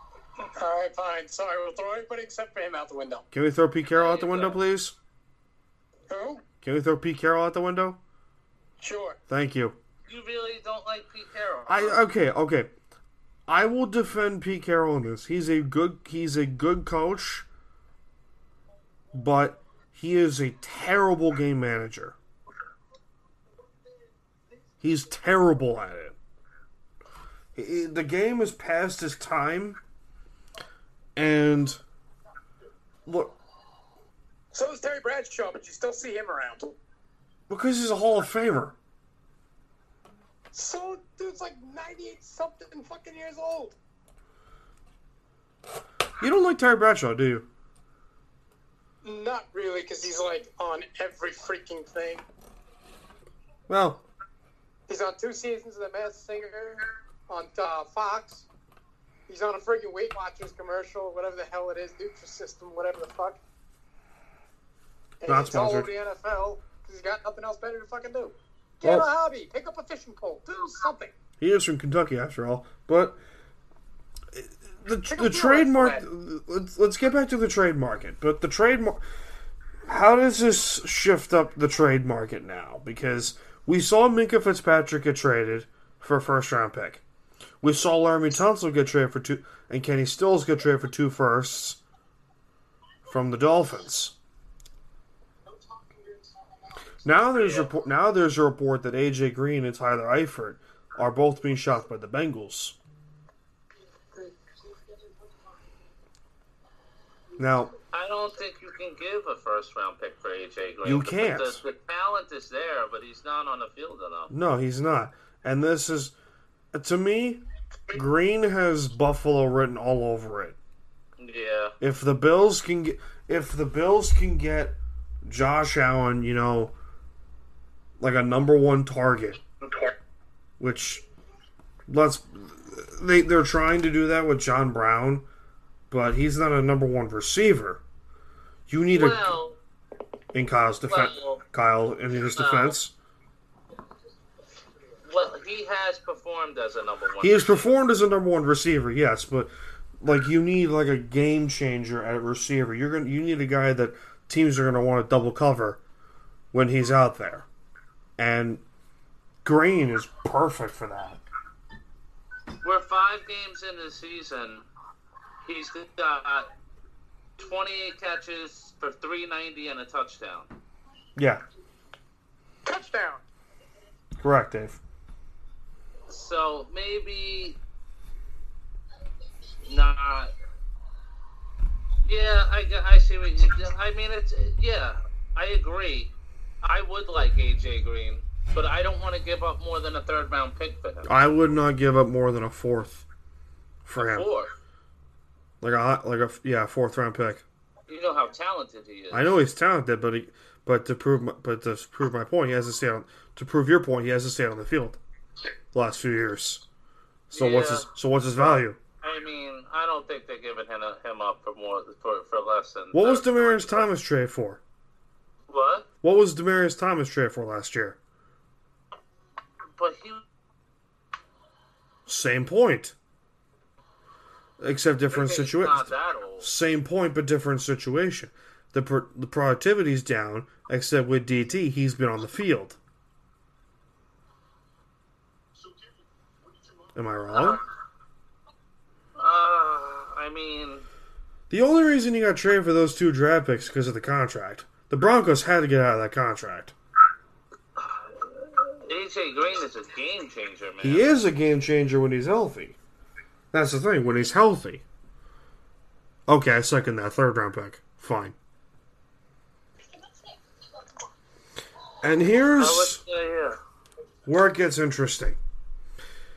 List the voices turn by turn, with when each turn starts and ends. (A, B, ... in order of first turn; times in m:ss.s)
0:00.4-0:03.2 A
0:03.3-0:05.0 B
0:03.9-0:04.6 C
0:06.1-0:06.4 A
0:06.6-0:08.0 B
0:08.8-0:09.2 A
0:09.3-0:09.8 B
0:10.1-0:12.0 C
0:11.7-0:12.7 B
0:13.5-0:17.4 B
0:19.1-0:22.2 B
0:24.8-0:26.2 B
0:27.5-0:29.8 B
0:31.2-0:31.8 B
0:33.0-0:33.3 B
0:34.5-0:36.7 A
0:37.5-0:38.8 B
0:40.5-0:43.8 A
0:46.2-0:47.5 B
0:49.0-0:52.2 A
0:53.7-0:54.0 B
0:54.9-0:58.4 A
0:59.3-1:03.4 A
1:05.2-1:11.1 A
1:05.2-1:05.9 B
1:08.8-1:09.1 B
1:11.4-1:13.2 B
1:14.3-1:19.0 B
1:15.1-1:16.0 A
1:19.8-1:27.0 B
1:27.6-1:31.8 B
1:33.1-1:34.1 B
1:37.0-1:42.8 B
1:37.3-1:37.7 C
1:47.4-1:47.7 B
1:47.9-1:54.3 C
1:50.8-1:51.6 B
1:54.3-1:56.1 B
1:56.7-2:00.6 B
2:01.2-2:01.7 C
2:01.8-2:06.7 B
2:08.0-2:09.4 B
2:10.6-2:11.0 B
2:11.9-2:15.2 B
2:15.9-2:17.8 B
2:18.7-2:19.4 B
2:18.9-2:19.6 C
2:20.3-2:22.9 B
2:20.9-2:21.4 C
2:22.3-2:22.8 C
2:25.0-2:27.7 C
2:27.2-2:35.8 B
2:36.5-2:37.5 B
2:38.2-2:38.6 B
2:39.4-2:41.2 B
2:42.6-2:44.6 C
2:45.4-2:46.5 C
2:47.4-2:50.5 C
2:51.2-2:51.4 B
2:52.6-2:53.2 A
2:54.2-2:54.8 B
2:56.1-2:57.6 C
2:59.6-3:00.3 C
3:02.0-3:06.1 C
3:06.6-3:11.1 C
3:11.0-3:13.0 B
3:13.8-3:14.3 B
3:14.0-3:14.5 C
3:15.6-3:17.4 B
3:17.9-3:19.4 C
3:19.1-3:25.0 B
3:25.7-3:26.6 B
3:27.3-3:28.8 B
3:27.3-3:27.9 C
3:28.4-3:33.9 C
3:32.9-3:34.6 B
3:35.5-3:35.9 C
3:36.0-3:38.0 B
3:39.8-3:40.2 C
3:42.1-3:42.9 B
3:44.6-3:52.8 B
3:45.1-3:46.5 C
3:56.9-3:57.6 B
3:59.2-4:00.9 C
4:01.5-4:06.7 B
4:07.8-4:11.1 C
4:10.8-4:12.8 B
4:13.5-4:14.8 B
4:16.3-4:18.4 B
4:22.0-4:23.0 B
4:22.6-4:23.6 C
4:24.2-4:25.4 B